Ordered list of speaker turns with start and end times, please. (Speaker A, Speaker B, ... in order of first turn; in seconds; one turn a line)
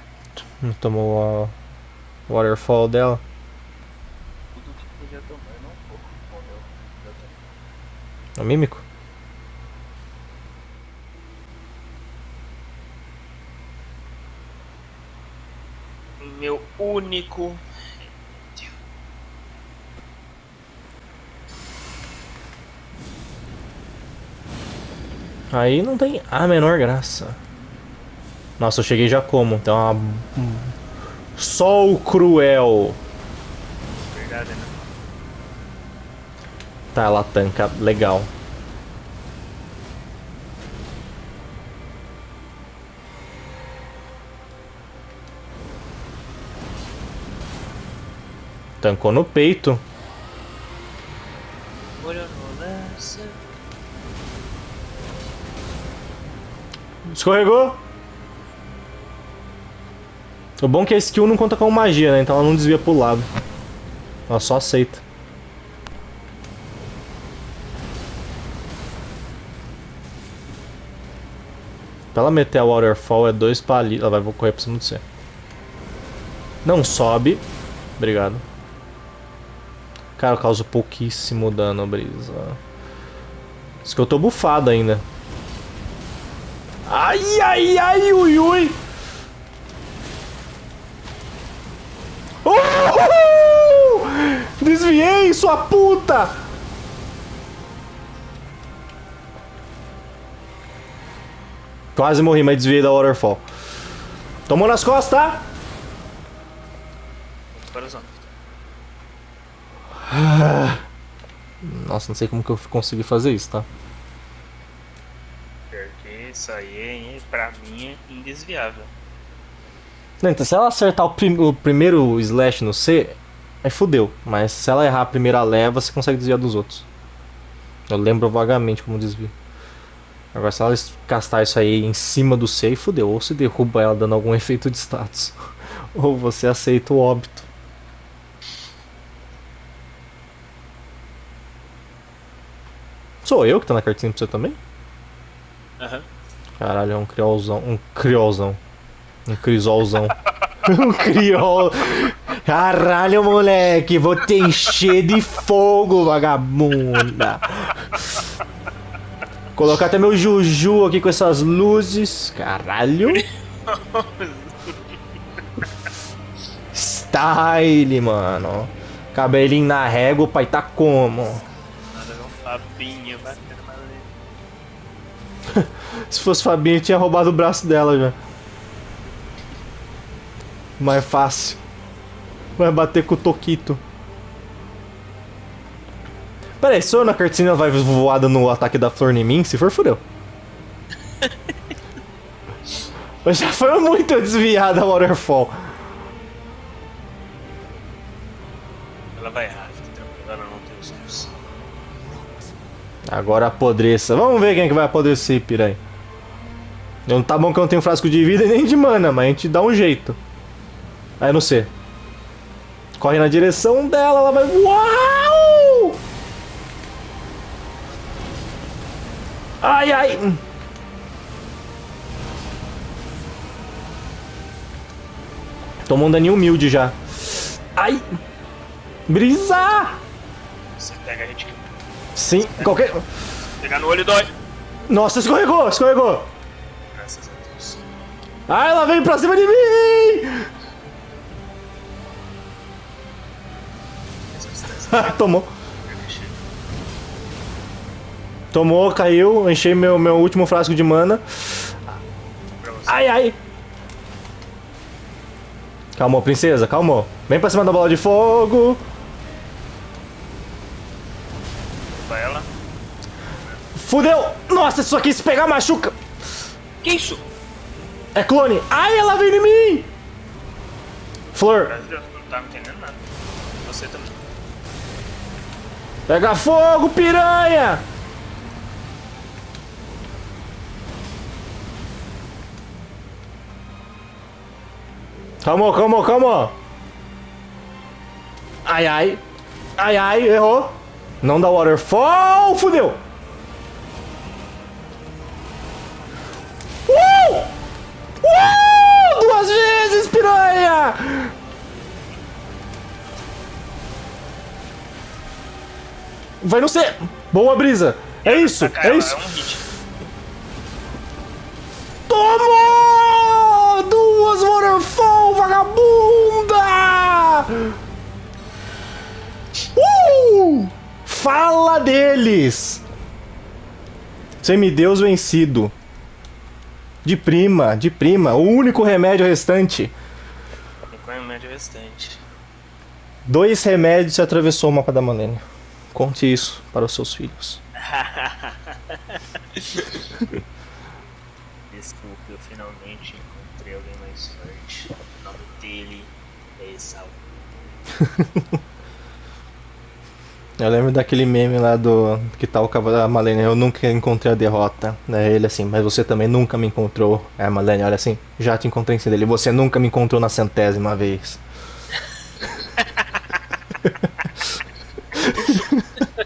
Speaker A: 0.6-1.5
Speaker A: 2.3-3.2
Speaker B: 4.5-7.4
Speaker A: 8.4-8.8
Speaker B: 16.2-17.6
Speaker A: 25.5-27.4
Speaker A: 28.6-30.7
Speaker A: 31.4-33.0
Speaker B: 34.1-34.9
Speaker A: 36.9-38.3
Speaker A: 48.8-49.8
Speaker B: 52.0-53.4
Speaker A: 57.1-57.8
Speaker A: 60.6-63.3
Speaker A: 64.3-65.0
Speaker A: 72.1-75.0
Speaker A: 76.6-77.4
Speaker A: 78.0-78.4
Speaker A: 80.2-82.6
Speaker A: 83.8-85.0
Speaker A: 86.9-88.8
Speaker A: 92.4-96.3
Speaker A: 102.0-103.4
Speaker A: 104.5-105.4
Speaker B: 107.5-108.2
Speaker A: 110.1-110.8
Speaker A: 111.6-113.7
Speaker B: 115.7-118.9
Speaker A: 120.2-126.9
Speaker A: 127.9-129.3
Speaker A: 130.3-135.4
Speaker A: 135.9-137.5
Speaker A: 143.2-144.6
Speaker B: 145.8-146.1
Speaker A: 146.6-148.6
Speaker A: 149.2-157.9
Speaker A: 159.6-163.2
Speaker B: 163.1-165.0
Speaker A: 166.7-171.4
Speaker B: 171.9-174.1
Speaker A: 175.5-178.2
Speaker A: 180.8-181.6
Speaker A: 182.6-183.8
Speaker A: 186.6-190.0
Speaker A: 193.2-195.6
Speaker B: 199.2-201.3
Speaker A: 203.1-205.8
Speaker A: 207.1-210.2
Speaker A: 211.2-211.7
Speaker A: 213.0-216.0
Speaker A: 219.6-220.4
Speaker A: 225.9-228.2
Speaker A: 229.1-230.0
Speaker B: 230.7-231.7
Speaker A: 232.2-233.0
Speaker B: 232.3-232.9
Speaker B: 233.6-234.3
Speaker A: 234.9-236.3
Speaker B: 236.9-237.8
Speaker A: 238.5-240.5
Speaker B: 244.3-245.2
Speaker A: 244.9-245.5
Speaker B: 245.8-246.4
Speaker A: 248.5-251.7
Speaker B: 252.6-253.2
Speaker A: 252.9-253.3
Speaker A: 255.9-258.8
Speaker B: 261.9-262.5
Speaker A: 263.8-265.9
Speaker B: 266.8-267.2
Speaker A: 268.1-269.9
Speaker A: 271.3-271.8
Speaker B: 271.6-273.0
Speaker B: 273.6-274.2
Speaker A: 276.1-277.8
Speaker A: 285.4-286.5
Speaker A: 288.6-289.2
Speaker A: 289.8-293.0
Speaker A: 296.9-297.5
Speaker A: 298.2-301.3
Speaker A: 306.4-309.2
Speaker B: 308.2-309.6
Speaker A: 312.1-317.8
Speaker A: 319.8-322.8
Speaker A: 324.4-325.7
Speaker A: 327.0-329.9
Speaker B: 330.9-332.2
Speaker A: 333.3-335.4
Speaker A: 335.9-337.6
Speaker B: 337.8-340.0
Speaker B: 341.7-347.2
Speaker A: 350.6-361.4
Speaker A: 365.1-365.7